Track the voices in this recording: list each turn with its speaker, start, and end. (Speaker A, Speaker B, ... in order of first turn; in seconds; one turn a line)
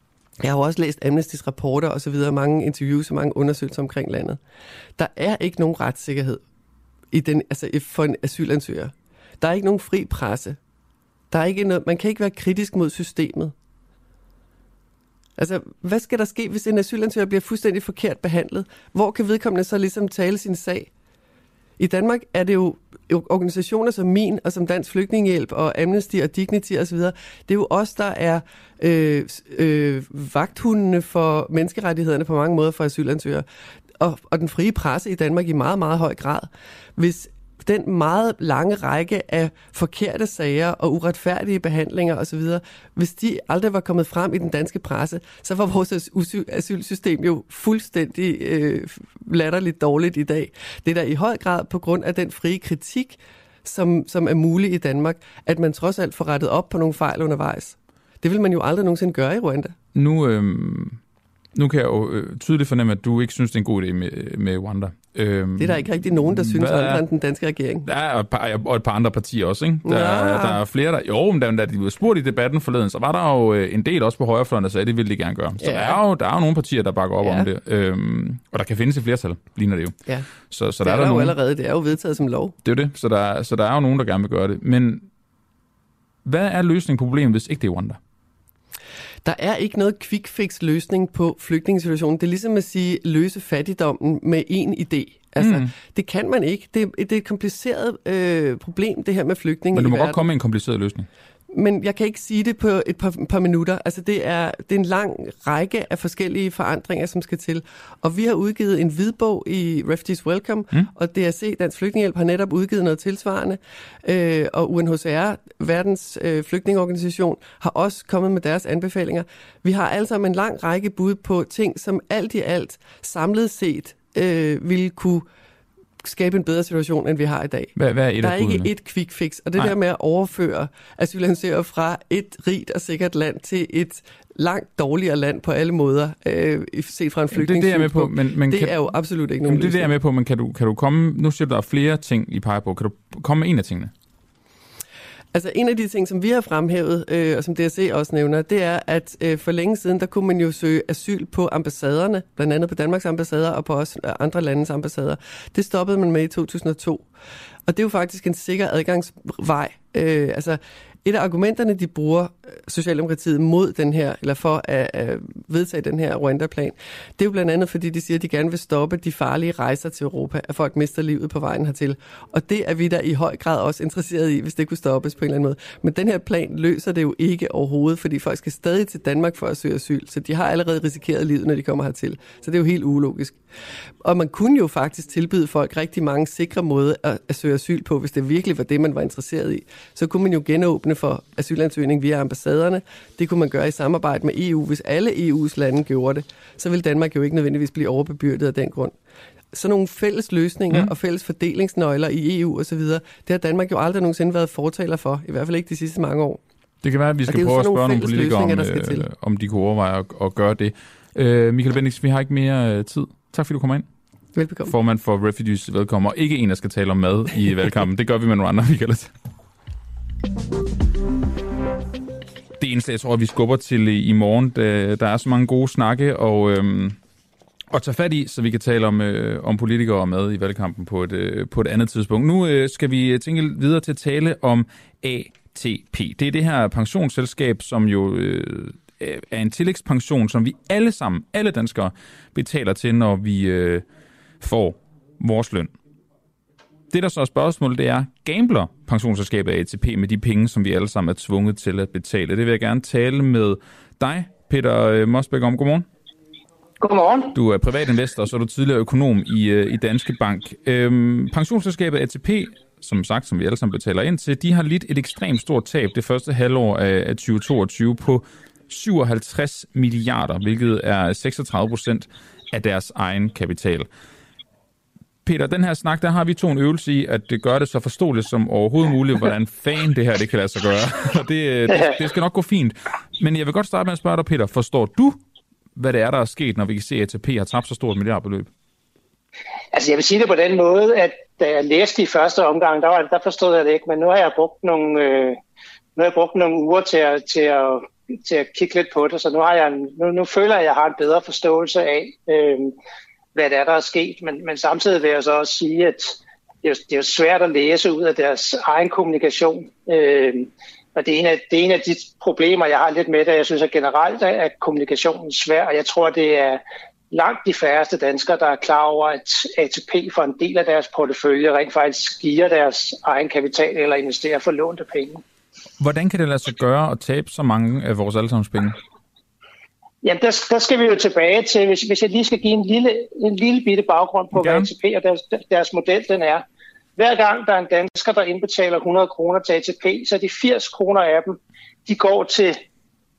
Speaker A: 0.4-4.4
Speaker A: 5.0-6.4
Speaker A: 7.1-10.6
Speaker A: 11.3-13.5
Speaker A: 15.4-20.9
Speaker A: 21.8-33.5
Speaker A: 34.0-59.7
Speaker B: 60.0-61.0
Speaker B: 61.5-67.0
Speaker A: 65.6-67.9
Speaker B: 67.8-81.4
Speaker A: 69.8-70.6
Speaker A: 75.6-76.0
Speaker A: 77.2-77.5
Speaker A: 80.8-82.5
Speaker B: 82.6-85.1
Speaker B: 86.2-88.0
Speaker A: 89.2-100.2
Speaker B: 95.4-95.7
Speaker B: 99.7-101.1
Speaker A: 101.5-125.3
Speaker A: 126.0-139.9
Speaker B: 127.8-128.7
Speaker B: 137.3-138.8
Speaker B: 139.4-143.9
Speaker A: 145.3-157.1
Speaker A: 157.7-183.4
Speaker A: 184.0-198.9
Speaker A: 199.5-206.4
Speaker B: 206.8-213.9
Speaker A: 207.3-209.1
Speaker A: 214.3-214.8
Speaker B: 214.7-219.1
Speaker B: 222.6-227.0
Speaker B: 227.7-243.9
Speaker B: 244.4-245.7
Speaker B: 246.9-255.9
Speaker C: 256.8-257.4
Speaker B: 257.3-273.9
Speaker B: 275.2-285.2
Speaker C: 281.7-282.0
Speaker B: 285.8-288.5
Speaker C: 289.7-295.4
Speaker C: 296.0-302.7
Speaker C: 303.4-325.2
Speaker B: 325.8-328.8
Speaker C: 330.0-336.4
Speaker B: 334.3-334.7
Speaker C: 337.0-342.6